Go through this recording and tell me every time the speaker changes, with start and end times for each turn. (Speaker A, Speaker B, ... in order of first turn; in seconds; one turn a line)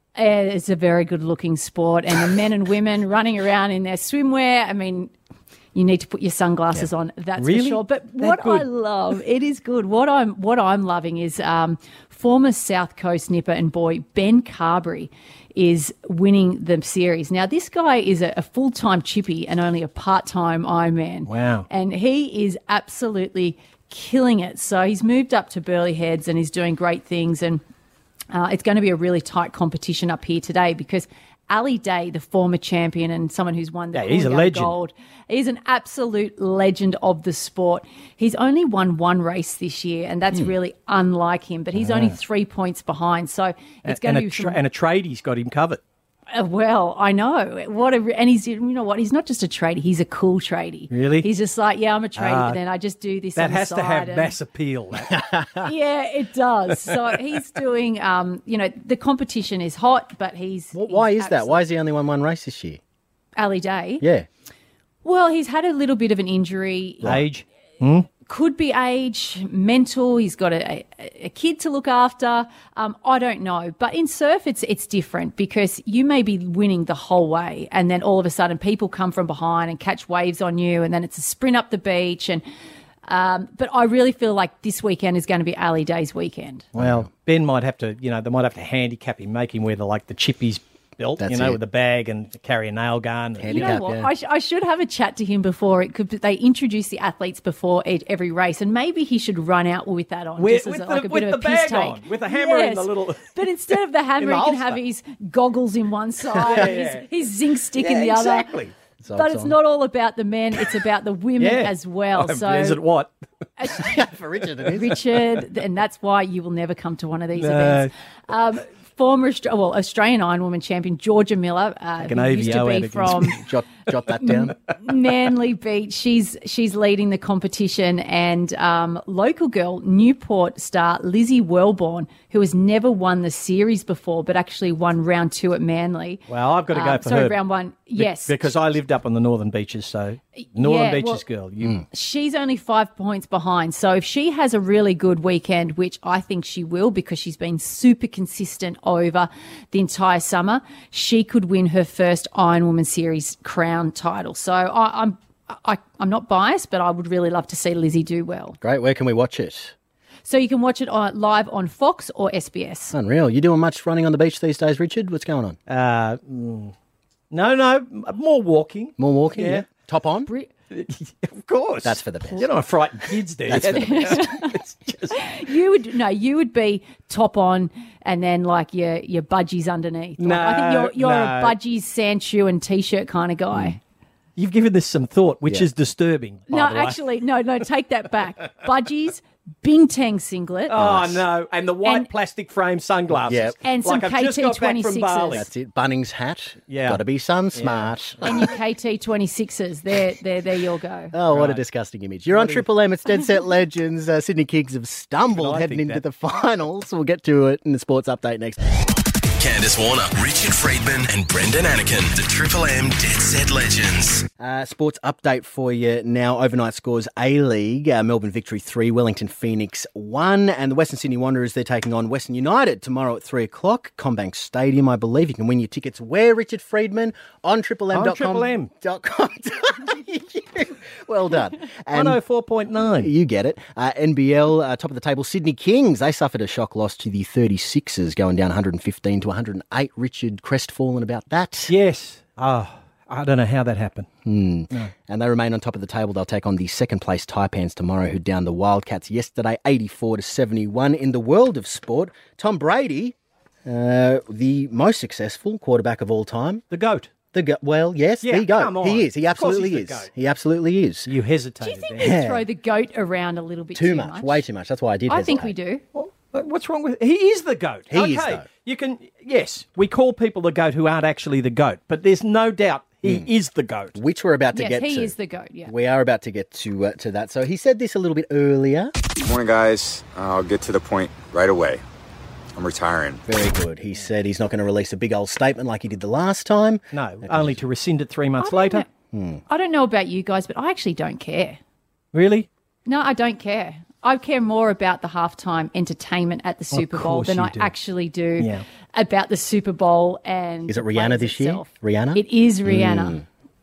Speaker A: 0.1-5.1
Speaker A: 5.8-27.6
Speaker B: 7.4-8.7
Speaker B: 21.3-21.7
Speaker A: 28.3-44.6
Speaker B: 33.9-34.7
Speaker B: 41.8-42.1
Speaker B: 43.8-45.8
Speaker A: 46.3-54.3
Speaker B: 50.9-51.3
Speaker B: 52.2-52.6
Speaker B: 53.4-55.2
Speaker C: 55.0-55.7
Speaker A: 55.6-61.6
Speaker C: 60.7-62.8
Speaker A: 63.4-64.0
Speaker C: 64.0-64.3
Speaker A: 65.0-67.1
Speaker B: 67.0-68.1
Speaker A: 68.2-82.4
Speaker A: 83.0-86.7
Speaker B: 86.8-93.8
Speaker C: 86.8-87.0
Speaker C: 91.2-91.6
Speaker C: 93.4-94.1
Speaker A: 93.5-108.5
Speaker B: 100.4-104.8
Speaker B: 106.3-107.1
Speaker B: 107.7-108.7
Speaker C: 109.0-109.5
Speaker A: 109.1-112.8
Speaker B: 111.4-113.1
Speaker A: 113.6-114.0
Speaker C: 113.8-115.0
Speaker A: 114.7-123.4
Speaker B: 117.4-117.9
Speaker B: 122.0-123.4
Speaker C: 123.2-124.5
Speaker A: 124.2-138.4
Speaker B: 136.3-137.4
Speaker B: 137.9-141.8
Speaker A: 140.4-141.2
Speaker A: 141.9-158.6
Speaker C: 158.6-159.7
Speaker A: 160.2-162.9
Speaker C: 162.9-165.6
Speaker B: 165.7-166.7
Speaker B: 167.3-169.7
Speaker C: 169.0-170.3
Speaker B: 170.7-175.2
Speaker C: 171.8-172.5
Speaker C: 173.5-174.3
Speaker A: 173.6-174.6
Speaker A: 175.1-183.8
Speaker B: 180.2-181.6
Speaker B: 184.4-187.0
Speaker A: 186.5-190.8
Speaker B: 190.7-195.5
Speaker C: 190.7-191.2
Speaker C: 193.2-193.6
Speaker A: 193.6-195.4
Speaker C: 195.3-198.5
Speaker B: 196.7-197.0
Speaker B: 197.5-198.2
Speaker A: 198.2-201.1
Speaker C: 201.1-208.6
Speaker B: 201.3-201.6
Speaker B: 202.3-202.6
Speaker B: 205.3-206.0
Speaker D: 209.4-214.2
Speaker C: 214.4-232.2
Speaker B: 227.9-228.7
Speaker B: 231.9-233.1
Speaker C: 232.9-241.7
Speaker B: 241.7-244.1
Speaker C: 244.2-253.1
Speaker C: 253.7-256.6
Speaker B: 256.7-257.1
Speaker C: 257.3-261.1
Speaker B: 258.2-260.1
Speaker B: 261.1-262.1
Speaker A: 261.6-264.4
Speaker C: 262.0-262.4
Speaker C: 263.8-265.5
Speaker A: 265.1-265.8
Speaker B: 265.9-274.0
Speaker C: 267.9-268.4
Speaker C: 273.0-273.3
Speaker C: 273.9-275.1
Speaker A: 274.5-275.7
Speaker C: 275.6-278.9
Speaker E: 279.2-281.8
Speaker E: 282.6-283.2
Speaker C: 283.3-287.6
Speaker B: 286.9-288.8
Speaker A: 288.4-288.9
Speaker C: 289.1-289.4
Speaker A: 289.5-291.6
Speaker B: 292.1-292.5
Speaker A: 292.9-303.2
Speaker B: 296.7-297.7
Speaker B: 298.4-298.6
Speaker C: 300.7-303.2